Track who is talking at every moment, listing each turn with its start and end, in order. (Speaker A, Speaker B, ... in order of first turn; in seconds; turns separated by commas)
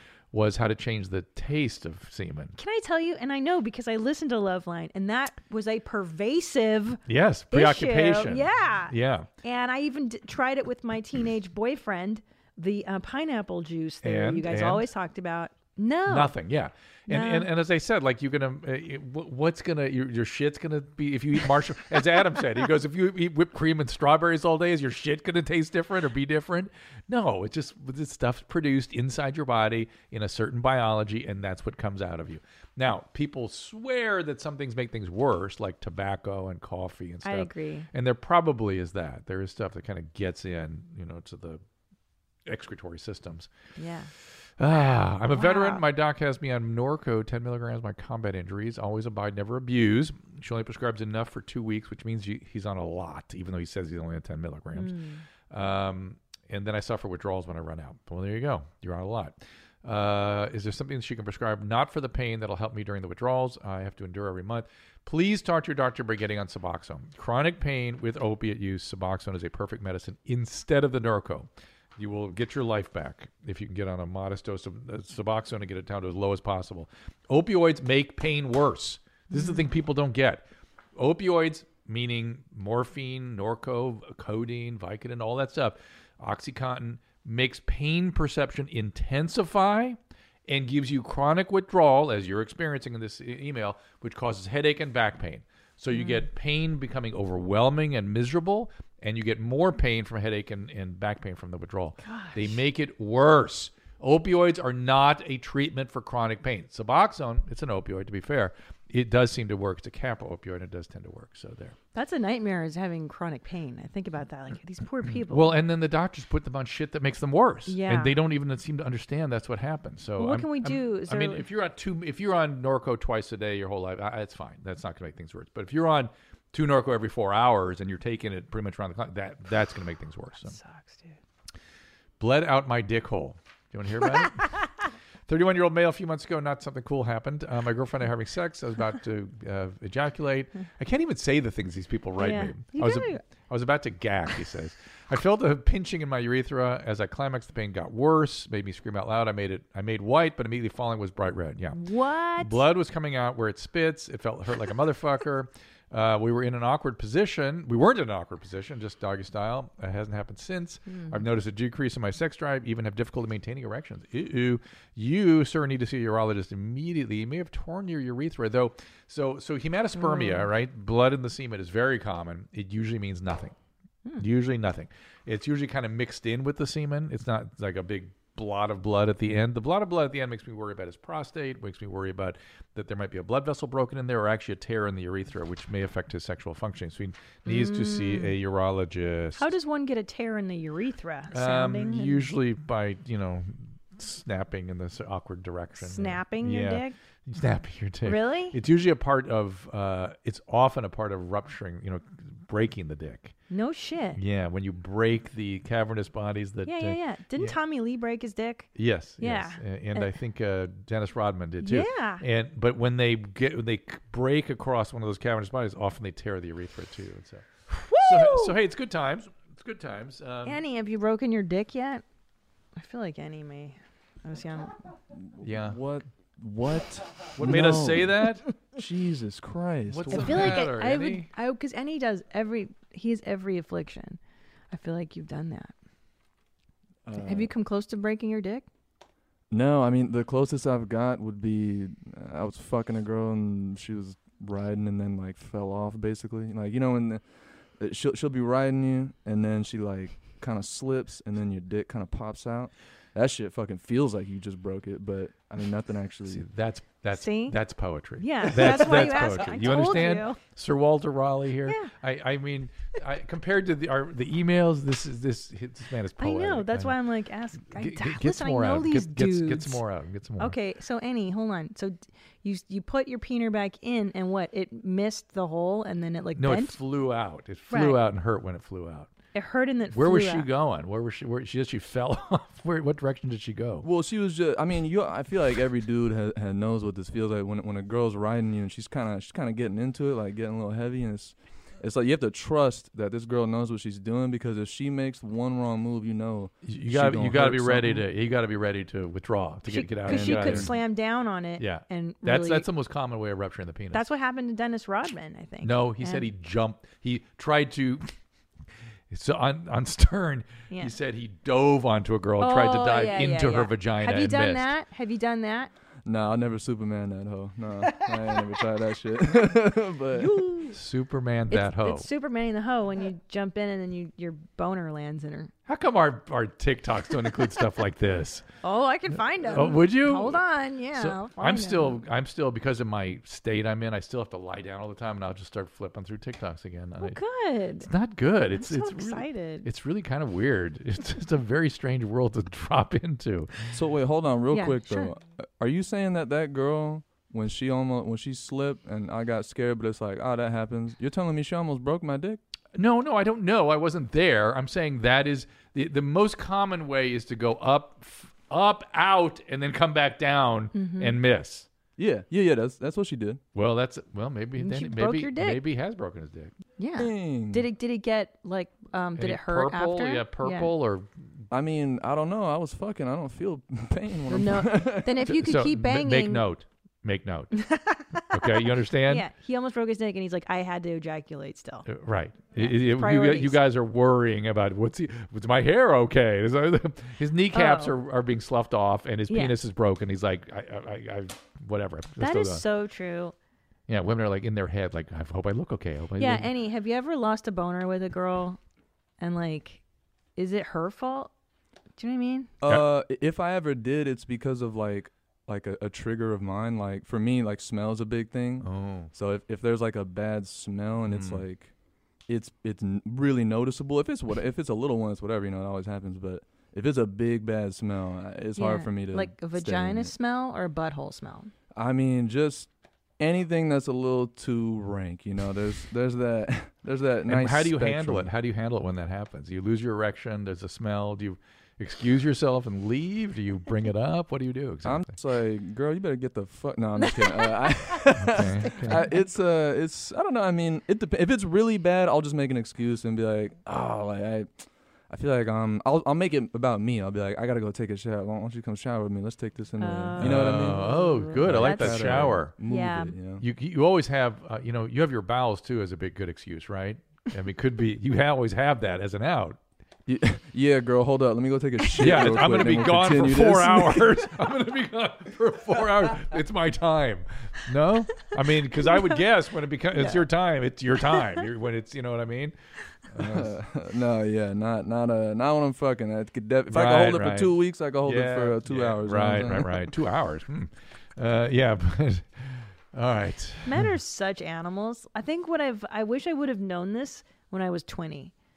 Speaker A: 0.3-2.5, Speaker B: 2.5-16.3, Speaker A: 7.1-9.3, Speaker A: 14.0-14.9, Speaker A: 16.1-41.6, Speaker B: 17.1-17.5, Speaker B: 37.2-37.9, Speaker A: 42.5-43.5, Speaker B: 43.8-44.1, Speaker A: 44.6-55.0, Speaker B: 44.8-45.8, Speaker B: 54.7-55.2, Speaker A: 55.5-111.8, Speaker B: 79.3-79.6, Speaker B: 95.9-96.2, Speaker B: 102.0-102.6, Speaker B: 111.9-115.6, Speaker A: 115.2-130.6, Speaker B: 117.7-118.2, Speaker B: 120.2-121.5, Speaker B: 130.4-131.2, Speaker A: 132.2-134.6, Speaker A: 135.3-151.8, Speaker B: 142.2-143.2, Speaker B: 151.7-152.6, Speaker A: 152.4-173.6, Speaker B: 160.9-161.2, Speaker B: 170.0-170.5, Speaker A: 174.2-189.5, Speaker B: 187.4-188.3, Speaker B: 189.4-192.3, Speaker A: 191.3-203.3, Speaker B: 195.8-196.9, Speaker B: 198.0-198.6, Speaker B: 203.5-204.2, Speaker A: 204.2-207.6, Speaker B: 206.7-208.7, Speaker A: 208.8-220.6, Speaker B: 209.2-210.1, Speaker B: 211.6-212.2, Speaker B: 217.7-218.6, Speaker B: 220.4-222.0, Speaker B: 222.8-224.8, Speaker C: 225.3-230.6, Speaker A: 225.4-225.8, Speaker A: 227.4-228.4, Speaker A: 229.9-231.3, Speaker B: 230.1-234.2, Speaker B: 234.7-235.7, Speaker B: 237.2-238.7, Speaker C: 239.5-247.2, Speaker C: 247.8-256.4, Speaker A: 256.3-267.0, Speaker B: 257.1-257.6, Speaker B: 258.2-260.4, Speaker B: 261.6-261.9, Speaker B: 266.2-269.8, Speaker A: 267.7-270.6, Speaker B: 270.4-276.8, Speaker A: 276.4-279.1, Speaker B: 277.7-278.0, Speaker B: 279.3-280.5, Speaker A: 279.9-283.9, Speaker C: 283.8-298.0, Speaker A: 296.6-300.8, Speaker B: 299.7-302.6, Speaker C: 300.1-300.7, Speaker A: 301.6-304.1, Speaker B: 303.9-306.3, Speaker A: 305.6-308.1, Speaker A: 309.1-314.7, Speaker B: 312.4-315.7, Speaker C: 316.1-320.3, Speaker B: 317.9-318.4, Speaker B: 320.1-320.8, Speaker A: 320.7-322.1, Speaker B: 321.5-325.5, Speaker A: 325.6-328.4, Speaker B: 328.6-332.0, Speaker A: 329.5-330.4, Speaker A: 330.9-337.2, Speaker B: 337.0-337.9, Speaker A: 337.8-343.5, Speaker B: 338.5-339.6, Speaker C: 343.7-352.4, Speaker B: 344.5-345.1, Speaker A: 352.7-361.7, Speaker B: 360.7-361.1, Speaker C: 362.0-363.4, Speaker A: 363.5-366.5, Speaker B: 364.6-365.6, Speaker B: 366.8-370.7, Speaker C: 366.9-367.6, Speaker A: 369.1-371.4, Speaker C: 371.5-375.2, Speaker B: 374.3-376.4, Speaker A: 375.2-377.6, Speaker B: 377.5-381.9, Speaker A: 378.3-379.2, Speaker A: 381.9-392.6, Speaker B: 382.5-383.6, Speaker B: 387.5-387.9, Speaker B: 389.3-389.6, Speaker B: 392.2-393.3, Speaker A: 393.9-396.5, Speaker B: 396.2-398.6, Speaker B: 399.2-399.8, Speaker B: 400.4-401.3, Speaker B: 402.0-402.5, Speaker C: 402.6-411.7, Speaker A: 408.6-409.1, Speaker A: 411.1-411.4, Speaker C: 412.3-420.1, Speaker B: 418.6-421.5, Speaker C: 421.7-428.3, Speaker A: 427.3-435.1, Speaker C: 434.8-453.4, Speaker B: 437.0-439.2, Speaker A: 438.2-439.1, Speaker B: 449.8-453.1, Speaker A: 450.2-452.5, Speaker A: 453.4-459.6, Speaker C: 460.1-464.1, Speaker A: 462.0-472.6, Speaker B: 469.9-470.2, Speaker A: 473.1-473.5, Speaker C: 473.2-479.7, Speaker A: 476.7-483.9, Speaker B: 483.6-488.3